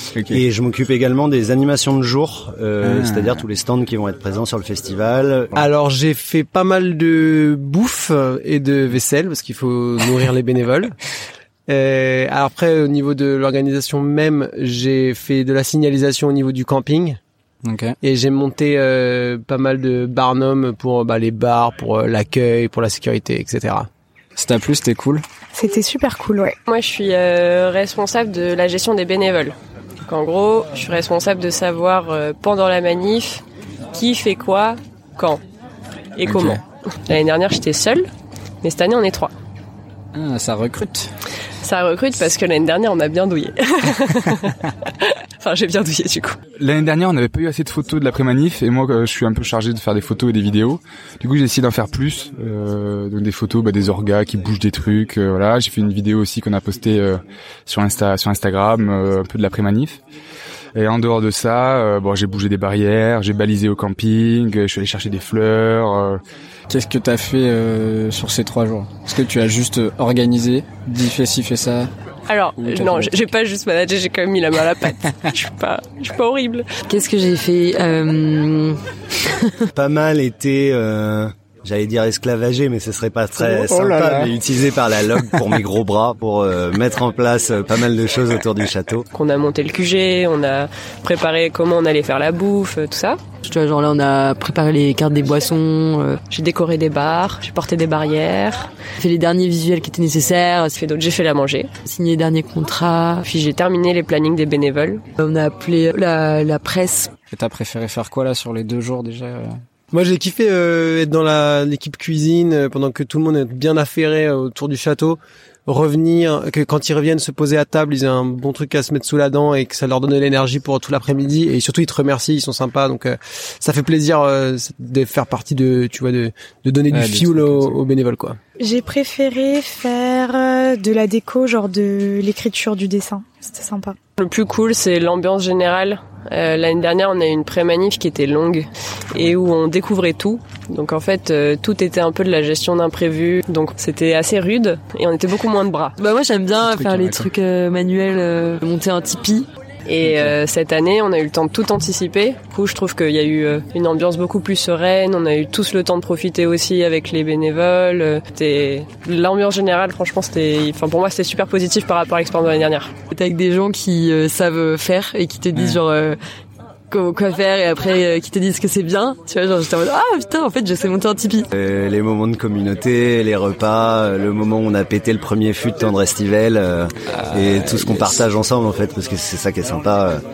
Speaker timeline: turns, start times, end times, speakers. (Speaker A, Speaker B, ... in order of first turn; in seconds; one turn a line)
Speaker A: 0.3-5.6
Speaker B: 2.8-3.4
Speaker C: 5.5-10.9
Speaker C: 11.7-17.2
Speaker B: 17.6-18.0
Speaker C: 18.0-23.9
Speaker B: 24.4-25.2
Speaker D: 25.5-26.6
Speaker E: 26.7-35.4
Speaker E: 36.2-38.1
Speaker B: 36.3-36.6
Speaker E: 38.6-39.3
Speaker B: 40.1-41.1
Speaker E: 41.6-46.4
Speaker F: 46.6-60.0
Speaker F: 60.8-66.2
Speaker B: 66.7-71.9
Speaker E: 72.3-76.7
Speaker B: 72.6-73.1
Speaker G: 76.9-78.8
Speaker A: 79.7-89.1
Speaker B: 83.4-84.3
Speaker E: 89.1-93.2
Speaker G: 93.4-96.2
Speaker E: 96.3-98.7
Speaker G: 99.0-100.8
Speaker E: 100.7-101.8
Speaker G: 101.8-103.3
Speaker E: 103.2-105.0
Speaker G: 105.2-107.1
Speaker B: 107.3-109.6
Speaker C: 109.9-128.4
Speaker B: 126.9-127.8
Speaker D: 128.6-134.0
Speaker E: 134.2-145.9
Speaker G: 146.0-149.5
Speaker B: 146.7-147.3
Speaker E: 149.8-163.0
Speaker G: 163.1-166.2
Speaker G: 166.9-171.5
Speaker A: 171.5-180.2